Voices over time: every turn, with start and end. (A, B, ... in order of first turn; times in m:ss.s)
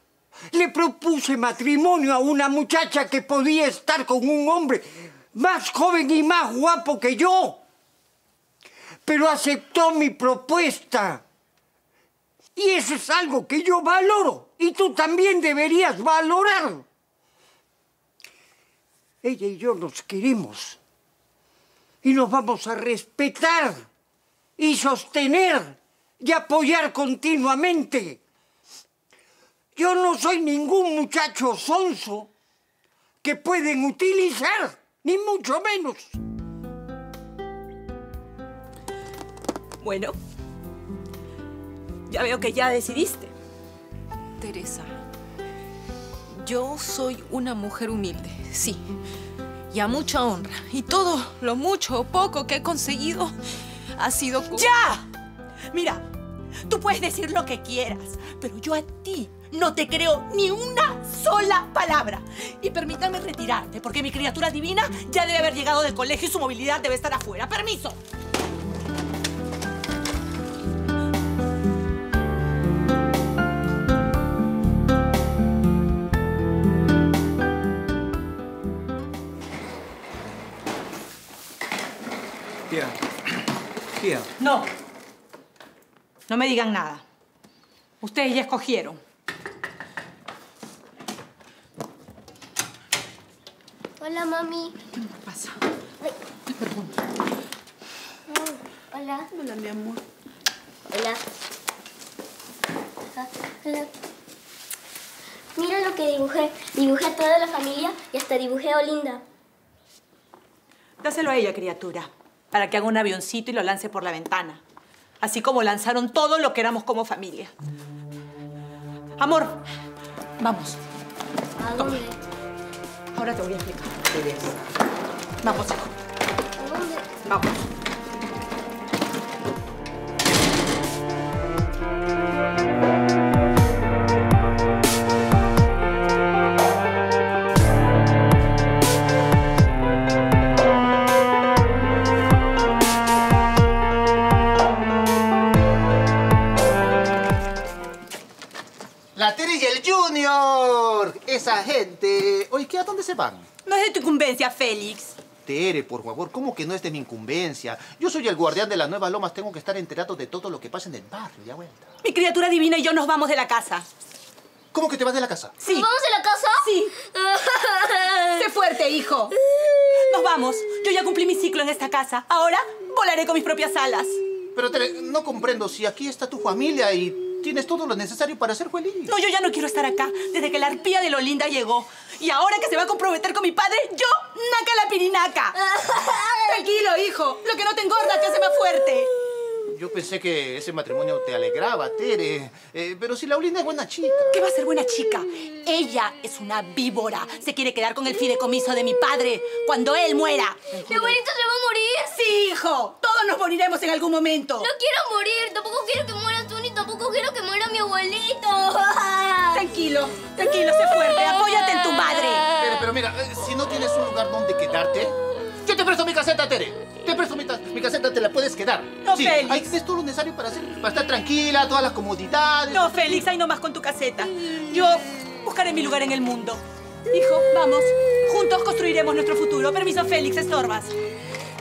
0:00.5-0:07.6 A
0:09.1-0:11.2 A
0:12.6-0:16.8 A
0:19.2-0:20.8 A
0:22.0-0:23.9 A
0:24.6-0:28.2 A
0:29.8-0:32.3 A
0:33.2-0:36.2 A
0:39.8-0:40.2 B
0:42.1-0:43.3 B
0:44.4-0:44.9 C
0:46.4-0:48.8 C
0:49.7-0:53.4 C
0:54.0-0:54.7 C
0:54.5-0:55.1 B
0:55.7-0:56.0 B
0:56.6-1:08.0 B
1:24.4-1:24.7 B
1:26.3-1:27.0 B
1:28.0-1:29.0 B
1:34.0-1:34.8 D
1:35.0-1:35.6 B
1:36.6-1:36.9 B
1:38.3-1:39.3 D
1:39.3-1:40.0 B
1:40.9-1:41.2 D
1:43.1-1:43.9 D
1:45.6-1:49.2 D
1:51.0-1:54.6 B
1:55.2-1:57.5 B
1:59.2-1:59.6 B
2:00.4-2:00.8 B
2:01.6-2:02.2 D
2:01.7-2:02.1 B
2:03.1-2:04.1 B
2:05.4-2:05.9 B
2:06.6-2:07.1 D
2:07.2-2:07.6 B
2:29.2-2:33.5 E
2:33.6-2:35.2 B
2:35.5-2:41.9 E
2:42.0-2:43.9 B
2:44.7-2:45.6 E
2:45.6-2:45.9 B
2:45.8-2:48.3 D
2:46.6-2:46.9 B
2:48.3-2:49.4 B
2:50.0-2:54.2 B
2:54.6-2:59.2 E
2:59.1-3:09.1 B
3:09.7-3:14.4 E
3:14.3-3:21.2 B
3:20.9-3:22.2 D
3:22.1-3:24.7 B
3:24.6-3:29.7 D
3:29.5-3:32.5 B
3:32.6-3:43.2 E
3:39.0-3:39.6 B
3:42.7-3:51.0 B